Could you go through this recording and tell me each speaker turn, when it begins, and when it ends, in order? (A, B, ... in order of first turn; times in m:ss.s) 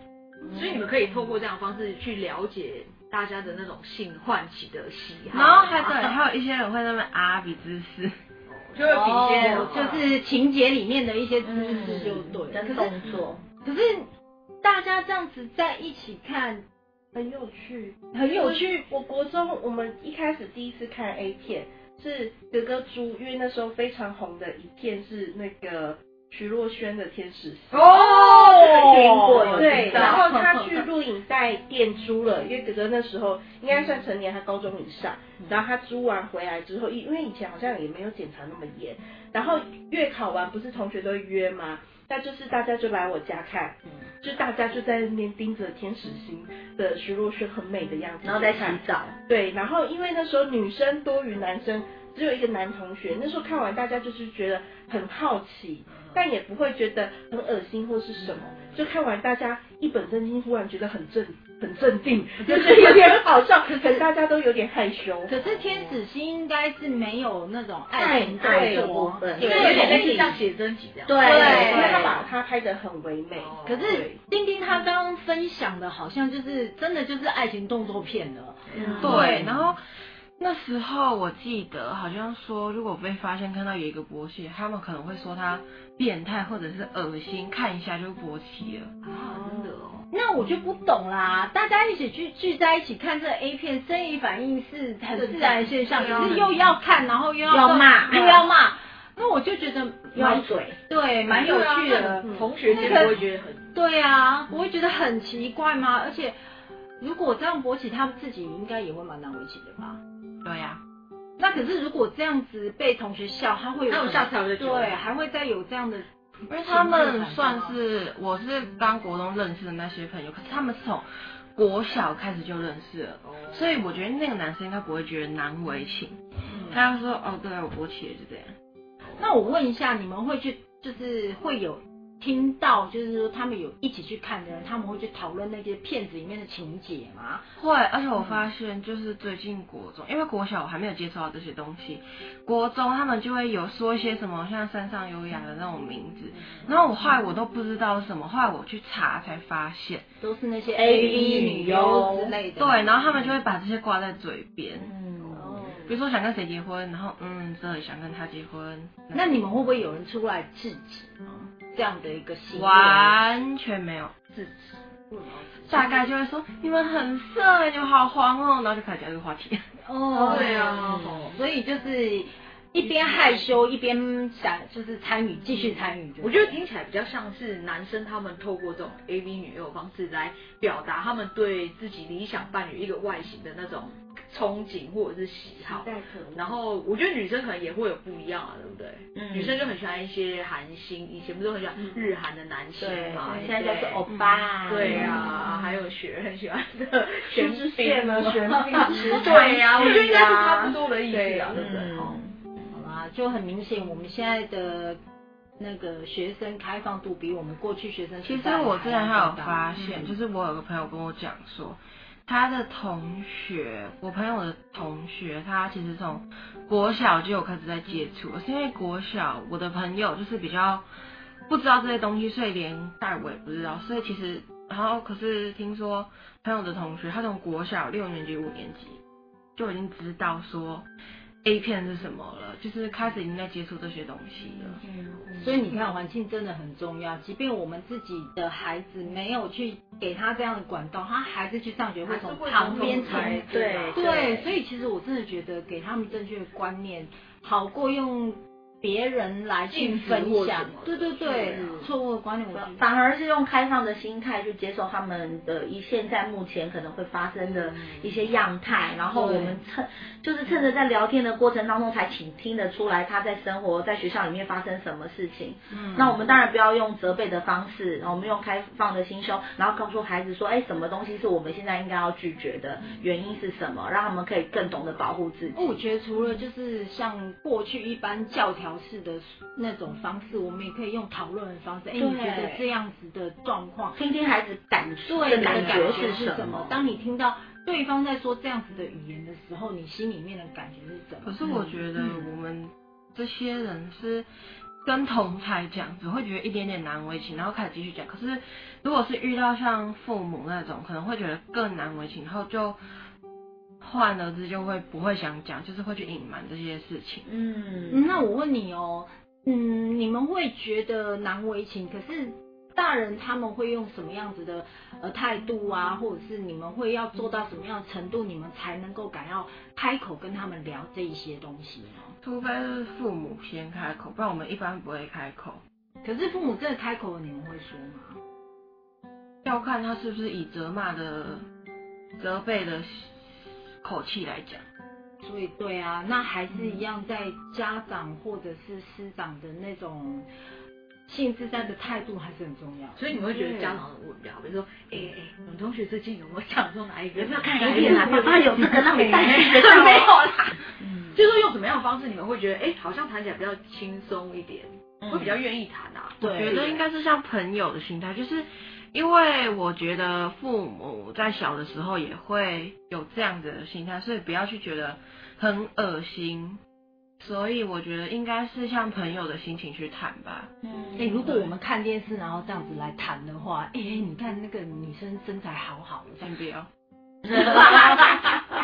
0:00.4-0:06.2 A
0:05.3-0:08.1 B
0:08.5-0:10.0 A
0:08.8-0:12.9 C
0:08.8-0:10.1 D
0:09.0-0:09.5 B
0:11.4-0:13.4 D
0:13.6-0:14.1 C
0:14.6-0:16.6 C
0:17.1-1:05.3 E
0:18.1-0:18.8 C
0:27.7-0:30.3 A
0:28.8-0:30.3 C
0:29.3-0:30.2 D
0:35.4-0:35.6 A
0:48.2-0:49.2 D
0:55.9-0:56.3 A
0:58.2-0:58.9 A
1:05.3-1:10.4 C
1:05.4-1:06.0 A
1:07.9-1:10.4 D
1:08.4-1:08.9 E
1:09.4-1:12.2 A
1:11.1-1:12.2 D
1:11.2-1:12.1 C
1:11.6-1:14.1 E
1:13.3-1:14.1 A
1:13.6-1:19.7 C
1:18.7-1:19.4 A
1:18.8-1:19.3 D
1:19.0-1:19.8 B
1:20.4-1:28.9 B
1:29.0-1:30.1 A
1:30.1-1:43.2 C
1:35.2-1:36.4 A
1:35.9-1:36.8 B
1:37.5-1:38.5 D
1:40.1-1:40.8 D
1:41.2-1:43.7 A
1:43.7-1:46.3 C
1:47.0-1:50.0 C
1:50.4-1:50.8 B
1:51.4-1:57.8 C
1:53.9-1:55.0 A
1:56.5-2:08.6 B
2:03.2-2:03.9 A
2:06.5-2:06.8 C
2:09.0-2:09.4 A
2:09.2-2:17.4 C
2:17.6-2:30.1 B
2:30.2-2:33.4 C
2:30.7-2:32.3 D
2:31.2-2:31.6 B
2:32.6-2:34.9 B
2:34.8-2:35.8 D
2:35.3-2:35.7 A
2:35.3-2:35.9 C
2:35.8-2:39.7 B
2:39.1-2:43.2 C
2:42.5-2:44.1 B
2:44.3-2:46.1 A
2:45.7-2:49.6 B
2:49.8-2:56.6 C
2:50.2-2:51.2 D
2:50.2-2:51.4 A
2:52.8-2:53.5 A
2:55.5-3:14.0 A
3:05.6-3:06.5 E
3:09.2-3:09.6 D
3:12.7-3:15.8 D
3:14.1-3:14.5 B
3:14.7-3:22.2 A
3:14.9-3:15.2 C
3:17.3-3:20.1 E
3:18.5-3:19.6 C
3:19.2-3:20.8 D
3:21.1-3:21.5 E
3:21.5-3:22.4 D
3:22.7-3:25.0 C
3:25.6-3:30.2 C
3:28.2-3:40.8 B
3:41.5-3:49.0 B
3:49.6-3:50.8 B
3:51.4-3:54.8 B
3:54.8-3:55.7 D
3:55.4-4:12.8 C
4:02.0-4:04.1 A
4:02.7-4:04.6 D
4:09.7-4:11.9 A
4:11.4-4:11.8 D
4:12.5-4:35.8 D
4:17.6-4:18.2 A
4:19.1-4:19.6 C
4:25.7-4:26.2 C
4:35.5-4:44.0 C
4:42.0-4:42.7 D
4:43.9-4:46.8 D
4:45.0-4:51.5 C
4:45.3-4:46.2 B
4:51.2-4:54.2 B
4:51.4-4:52.2 D
4:54.8-5:02.8 B
5:03.8-5:07.2 B
5:07.2-5:08.1 D
5:07.9-5:22.1 C
5:22.2-5:25.6 B
5:26.0-5:28.2 C
5:29.4-5:31.4 B
5:32.2-5:34.6 B
5:35.2-5:40.3 C
5:41.1-5:43.0 C
5:42.9-5:50.6 A
5:43.3-5:43.8 D
5:47.2-5:51.2 D
5:47.8-5:48.1 C
5:51.1-5:56.8 A
5:55.0-5:55.4 D
5:56.2-5:56.7 C
5:56.2-6:06.6 B
6:07.2-6:10.5 B
6:10.6-6:11.2 D
6:11.0-6:16.3 C
6:11.2-6:11.5 B
6:16.2-6:16.7 B
6:17.3-6:18.3 D
6:17.3-6:18.0 C